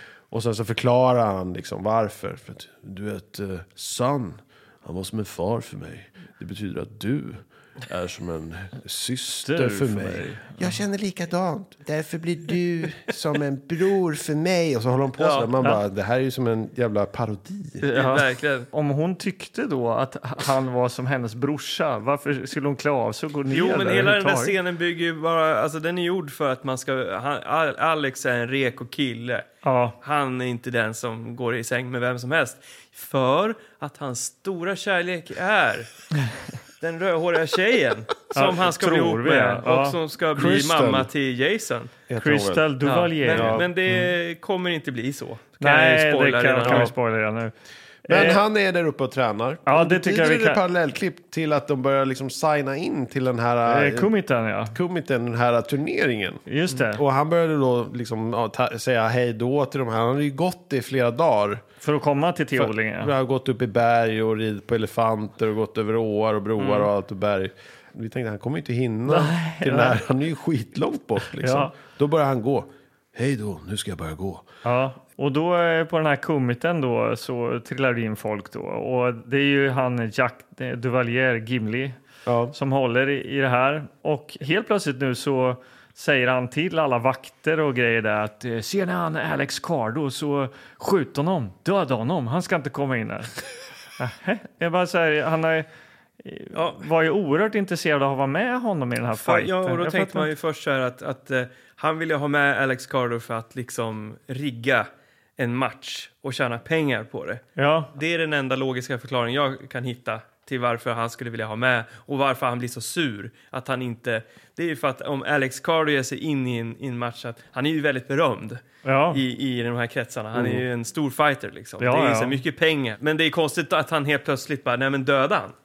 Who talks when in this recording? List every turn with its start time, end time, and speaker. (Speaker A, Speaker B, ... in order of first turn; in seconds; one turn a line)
Speaker A: 0.3-17.8
Speaker B: 9.4-10.8
Speaker C: 15.2-15.5
Speaker B: 17.8-24.6
Speaker C: 17.9-18.7
Speaker C: 23.5-29.5
Speaker B: 29.6-29.9
Speaker C: 30.0-35.9
Speaker C: 36.8-41.9
Speaker B: 38.3-40.0
Speaker A: 40.3-41.1
Speaker A: 42.1-42.6
Speaker B: 42.2-43.7
Speaker C: 42.8-46.9
Speaker A: 43.3-43.6
Speaker B: 45.6-47.5
Speaker A: 46.7-46.9
Speaker B: 48.1-48.4
Speaker A: 48.1-54.1
Speaker B: 49.7-50.6
Speaker B: 53.7-54.8
Speaker A: 54.7-61.6
Speaker B: 56.5-57.0
Speaker B: 61.8-63.1
Speaker A: 62.6-74.5
Speaker C: 66.6-66.9
Speaker B: 69.1-70.0
Speaker B: 71.4-71.7
Speaker B: 74.7-82.0
Speaker A: 82.3-82.5
Speaker B: 82.5-93.4
Speaker B: 94.0-95.7
Speaker B: 96.2-100.3
Speaker C: 96.5-96.8
Speaker C: 99.2-125.5
Speaker B: 107.6-107.9
Speaker B: 118.8-119.2
Speaker A: 120.3-120.6
Speaker B: 121.8-122.4